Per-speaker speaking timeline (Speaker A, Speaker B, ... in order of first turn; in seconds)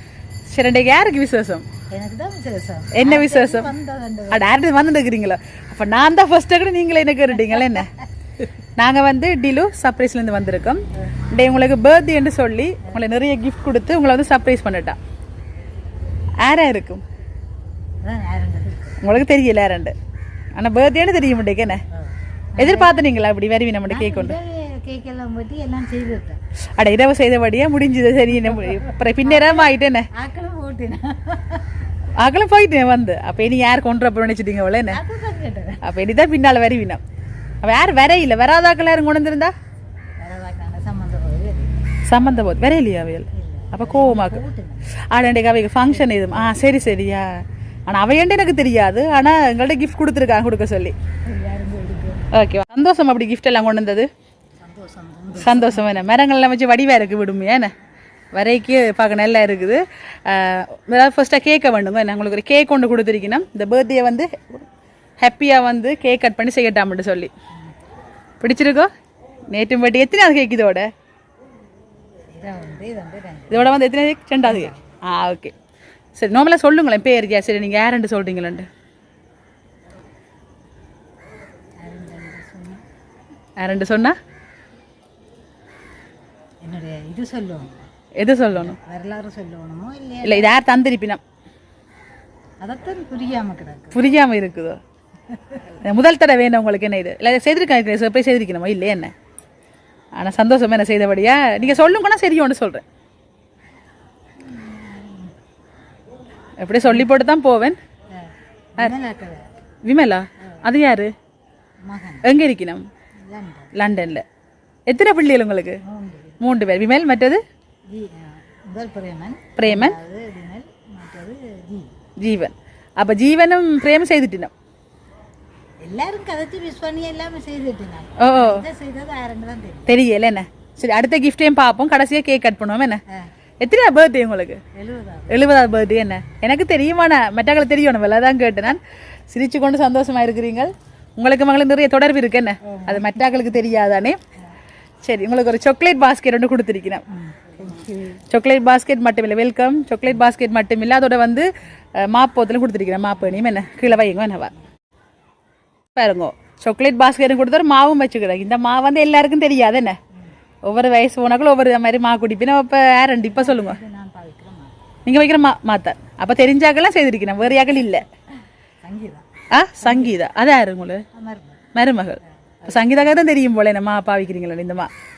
Speaker A: 0.5-1.6, 2.9-3.7, 4.3-7.9, 8.8-15.0, 16.4-17.0, 19.0-19.9, 20.5-21.8, 22.6-24.4, 26.8-30.1, 32.2-35.0, 35.8-37.0, 37.6-39.5, 42.1-44.4, 45.1-50.9, 52.3-54.1, 55.4-57.7, 58.3-64.6, 65.2-67.3, 68.4-68.9, 69.5-70.9, 73.5-75.5, 76.1-78.7, 83.6-84.2, 88.2-88.8, 90.2-91.2, 93.9-94.8, 95.8-99.1, 100.1-102.8, 106.6-107.8, 109.8-111.1, 112.2-112.8, 113.7-114.2, 114.9-115.8, 116.4-117.4, 119.6-119.9, 122.2-124.5, 128.2-128.6, 129.9-133.0, 133.6-134.6, 135.3-144.2, 145.0-147.0, 148.3-154.5, 155.9-160.0, 160.6-163.8, 165.1-168.0, 169.5-171.0, 171.7-174.9
Speaker B: 1.9-4.6, 18.0-19.0, 21.9-22.9, 23.9-26.4, 28.4-31.8, 34.9-35.8, 40.2-41.9, 43.3-44.9, 45.9-46.6, 51.3-52.3, 54.6-56.1, 72.3-73.7, 74.4-74.9, 81.8-82.8, 86.6-87.9, 88.5-90.6, 92.6-94.0, 95.3-95.7, 104.4-105.3, 106.8-107.1, 108.1-109.6, 111.8-112.3, 113.3-113.7, 115.8-116.4, 117.9-121.9, 125.8-129.9, 134.7-135.5, 142.6-143.2, 147.1-148.2, 163.3-164.8, 167.5-168.0, 168.8-169.2, 169.8-170.1, 171.1-171.6, 172.6-173.1